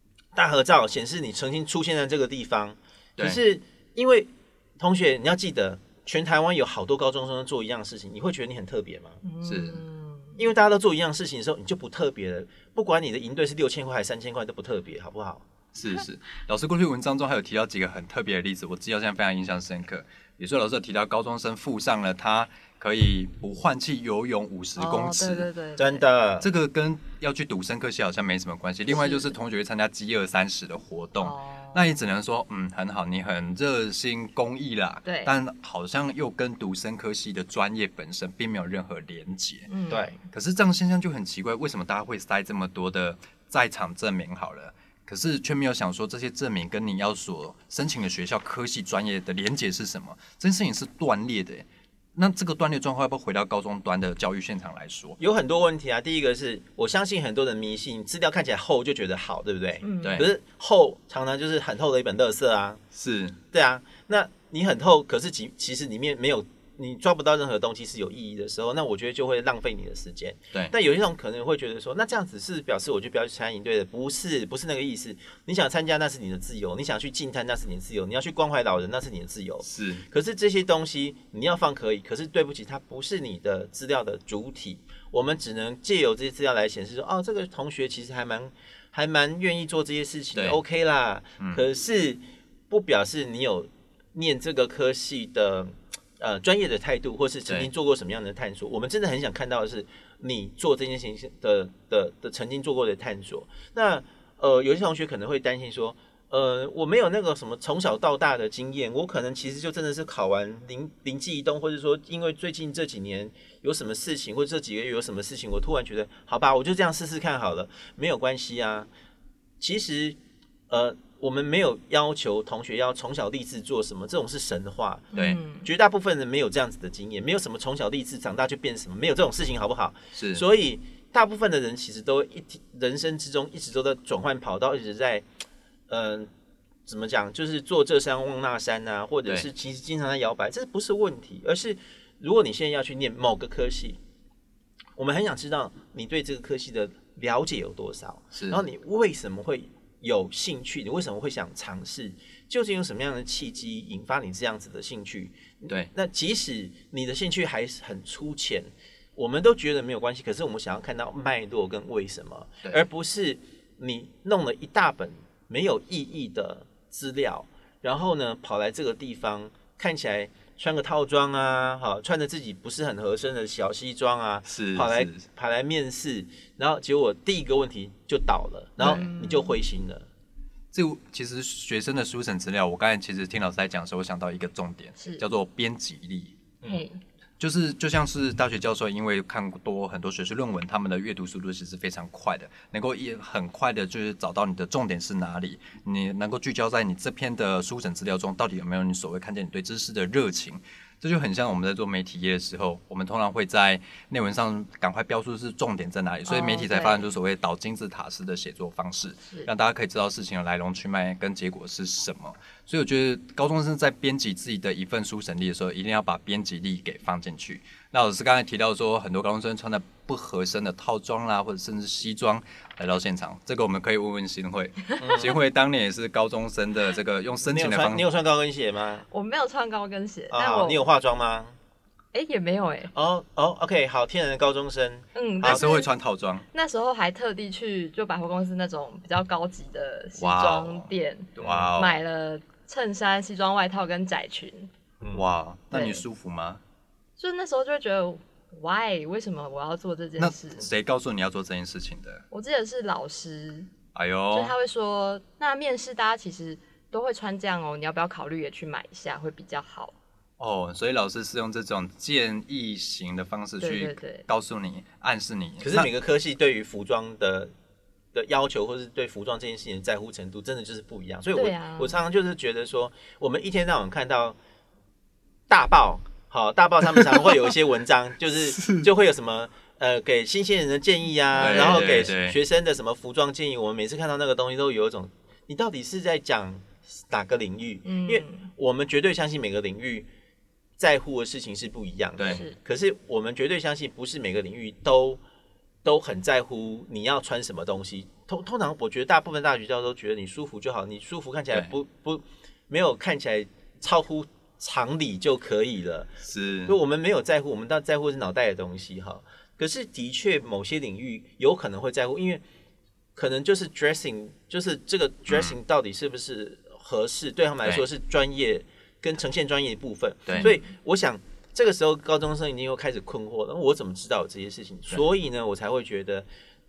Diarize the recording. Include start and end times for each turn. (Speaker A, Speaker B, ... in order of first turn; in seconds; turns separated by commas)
Speaker A: 0.3-9.2, Speaker B: 9.2-10.4, Speaker C: 9.4-9.8, Speaker A: 10.4-15.4, Speaker C: 15.7-25.5, Speaker B: 24.8-26.0, Speaker A: 25.8-26.5, Speaker C: 26.4-39.7, Speaker B: 28.9-29.3, Speaker B: 31.2-31.8, Speaker B: 35.1-35.3, Speaker B: 39.7-40.1, Speaker A: 39.9-40.1, Speaker C: 40.3-55.2, Speaker A: 55.2-62.8, Speaker B: 59.8-60.2, Speaker C: 60.0-60.3, Speaker C: 62.9-63.4, Speaker A: 63.5-118.9, Speaker C: 79.6-80.0, Speaker A: 119.6-120.2, Speaker A: 120.7-125.1, Speaker B: 125.1-125.7, Speaker C: 125.1-125.4, Speaker A: 125.6-135.2, Speaker C: 130.1-130.4, Speaker A: 135.9-136.3, Speaker A: 136.8-144.0, Speaker A: 145.0-180.1, Speaker C: 148.3-148.6, Speaker C: 174.5-175.3, Speaker B: 178.8-179.6, Speaker C: 178.8-179.1, Speaker C: 180.7-186.4, Speaker B: 186.6-187.0, Speaker C: 187.4-228.1, Speaker B: 206.3-207.0, Speaker A: 225.0-225.4, Speaker A: 227.4-229.1, Speaker B: 229.1-230.8, Speaker A: 230.3-231.6, Speaker B: 232.1-232.9, Speaker A: 232.9-235.7, Speaker B: 235.2-235.9, Speaker C: 235.4-236.5, Speaker B: 236.5-244.7, Speaker C: 240.2-242.0, Speaker A: 241.4-241.7, Speaker C: 245.1-246.6, Speaker B: 245.7-246.0, Speaker B: 247.2-250.7, Speaker C: 250.2-252.2, Speaker B: 252.3-253.7, Speaker C: 253.9-254.5, Speaker B: 254.3-260.0, Speaker C: 260.4-265.9, Speaker B: 263.6-264.2, Speaker A: 265.6-267.5, Speaker A: 268.1-274.4, Speaker B: 271.4-272.0, Speaker A: 275.5-290.1, Speaker C: 278.5-278.9, Speaker C: 281.4-282.4, Speaker B: 281.4-281.9, Speaker B: 287.9-288.5, Speaker A: 290.8-295.2, Speaker C: 292.2-292.4, Speaker B: 292.2-292.6, Speaker A: 295.8-306.1, Speaker C: 306.2-306.8, Speaker A: 306.7-312.4, Speaker A: 313.1-326.3, Speaker C: 315.3-315.5, Speaker C: 320.2-320.5